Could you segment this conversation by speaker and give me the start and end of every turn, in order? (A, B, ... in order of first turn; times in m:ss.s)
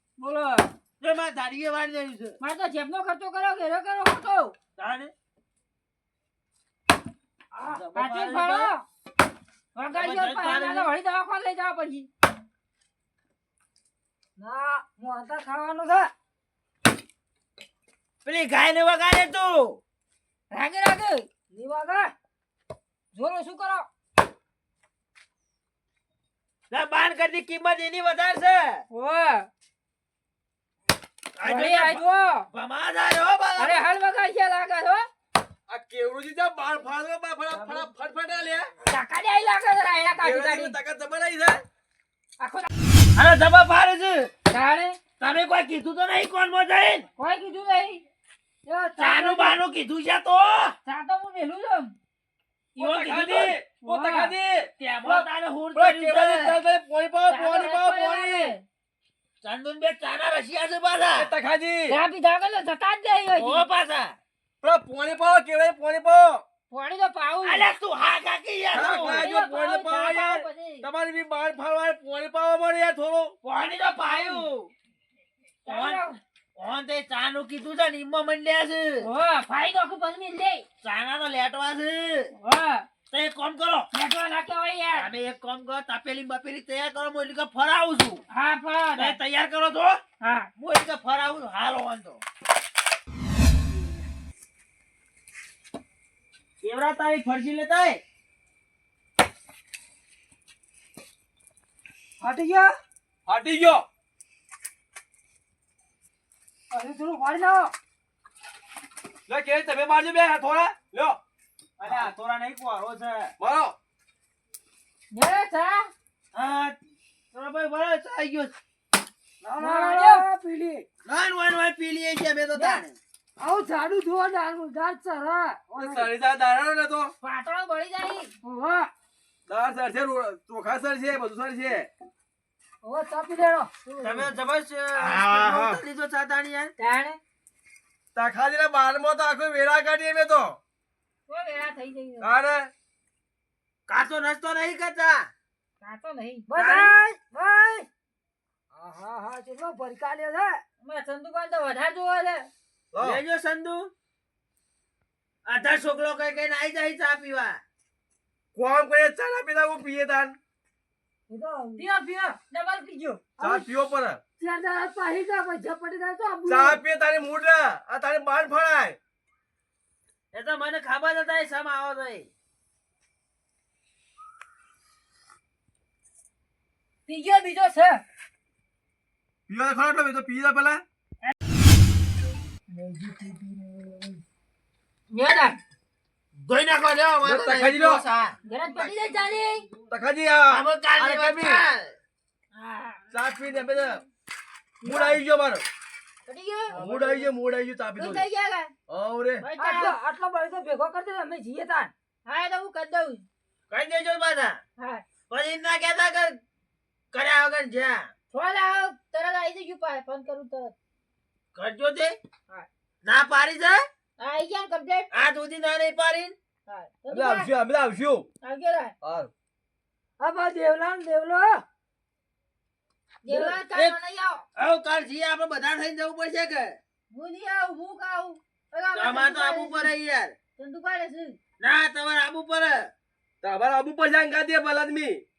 0:00.2-0:00.7 A
0:01.0-0:02.4 B
0:02.4-0:04.5 A
0:04.8-0:05.1 B
0:07.5-0:08.7 B
0:07.9-0:08.8 A
0:09.7-0:12.1 A
0:09.9-0:10.9 B
0:14.4-0:16.1 C
0:18.2-0:19.8 B
0:20.5-0:21.3 A
0:21.5-0:22.1 C
0:23.1-0:23.9 A
0:26.7-0:28.8 B
0:28.9-0:29.5 A
0:31.4-0:33.8 B
0:31.4-0:32.4 A
0:33.6-0:35.1 A
0:35.7-0:38.7 D
0:38.9-0:40.8 A
0:40.2-0:41.6 D
0:42.4-0:42.7 A
0:43.2-0:44.3 B
0:44.5-0:45.0 A
0:45.2-0:47.1 B
0:47.2-0:48.0 A
0:48.7-0:49.6 C
0:49.0-0:50.8 B
0:50.8-0:51.9 A
0:52.8-0:53.6 B
0:52.8-0:58.5 D
0:53.8-0:54.3 A
0:54.8-0:56.6 B
0:57.3-0:58.6 A
0:59.4-1:01.3 B
1:01.1-1:02.0 D
1:01.9-1:03.6 A
1:03.4-1:04.2 B
1:04.6-1:06.4 D
1:06.7-1:07.7 A
1:07.4-1:09.3 B
1:08.7-1:13.3 D
1:08.7-1:10.9 A
1:13.4-1:14.7 B
1:14.1-1:14.4 A
1:15.6-1:16.2 A
1:15.7-1:16.0 B
1:16.6-1:19.0 B
1:19.0-1:20.6 A
1:20.8-1:22.3 B
1:22.4-1:22.9 A
1:23.1-1:23.9 B
1:23.9-1:25.1 A
1:25.0-1:28.2 B
1:28.3-1:29.2 A
1:29.0-1:30.0 B
1:30.2-1:30.5 A
1:30.6-1:32.2 B
1:36.6-1:38.0 B
1:42.2-1:42.7 C
1:43.3-1:43.8 D
1:46.7-1:47.7 C
1:49.3-1:51.2 D
1:51.8-1:53.3 B
1:53.4-1:53.7 D
1:55.1-1:55.9 A
1:56.3-1:56.8 B
1:57.3-1:58.6 B
1:59.4-2:00.8 C
1:59.6-2:00.2 A
2:01.0-2:03.0 B
2:03.4-2:06.1 C
2:05.8-2:07.1 D
2:07.2-2:08.3 A
2:08.4-2:08.9 C
2:09.5-2:11.9 D
2:12.8-2:14.3 C
2:14.0-2:16.7 B
2:15.0-2:15.8 D
2:16.8-2:17.2 A
2:18.1-2:20.6 D
2:21.3-2:22.3 A
2:22.2-2:22.7 D
2:23.9-2:25.3 B
2:25.8-2:26.6 A
2:26.5-2:27.9 C
2:26.6-2:26.9 B
2:28.7-2:30.6 C
2:30.8-2:32.5 A
2:32.9-2:33.2 D
2:33.0-2:33.9 B
2:35.4-2:37.6 B
2:38.5-2:40.4 D
2:41.3-2:41.8 C
2:41.8-2:43.2 A
2:43.4-2:43.6 C
2:43.4-2:44.2 D
2:44.4-2:46.8 C
2:46.4-2:49.0 D
2:50.3-2:52.3 B
2:57.0-2:58.0 A
2:59.5-3:00.8 D
3:02.7-3:04.2 C
3:05.1-3:05.6 A
3:06.4-3:08.3 B
3:07.2-3:08.0 D
3:08.4-3:09.6 A
3:09.9-3:11.6 D
3:10.5-3:12.0 B
3:12.5-3:13.0 A
3:13.1-3:14.0 D
3:14.8-3:15.2 C
3:14.8-3:15.6 D
3:16.2-3:16.8 A
3:16.7-3:18.2 D
3:16.8-3:17.1 C
3:18.0-3:18.7 A
3:18.9-3:19.4 D
3:19.4-3:20.0 A
3:19.6-3:21.9 C
3:22.2-3:23.2 A
3:23.7-3:24.6 B
3:24.8-3:25.0 A
3:25.3-3:26.4 B
3:27.1-3:28.1 B
3:28.3-3:30.7 A
3:31.5-3:32.2 B
3:33.0-3:33.8 B
3:34.2-3:35.1 A
3:35.1-3:36.3 B
3:36.7-3:37.5 A
3:37.1-3:38.3 D
3:38.4-3:38.9 A
3:39.0-3:39.3 D
3:40.2-3:41.6 C
3:43.2-3:44.4 A
3:43.3-3:43.6 C
3:43.7-3:44.0 B
3:44.6-3:46.8 B
3:47.1-3:49.9 A
3:48.9-3:50.3 B
3:50.6-3:51.4 A
3:51.6-3:52.9 B
3:53.4-3:55.2 D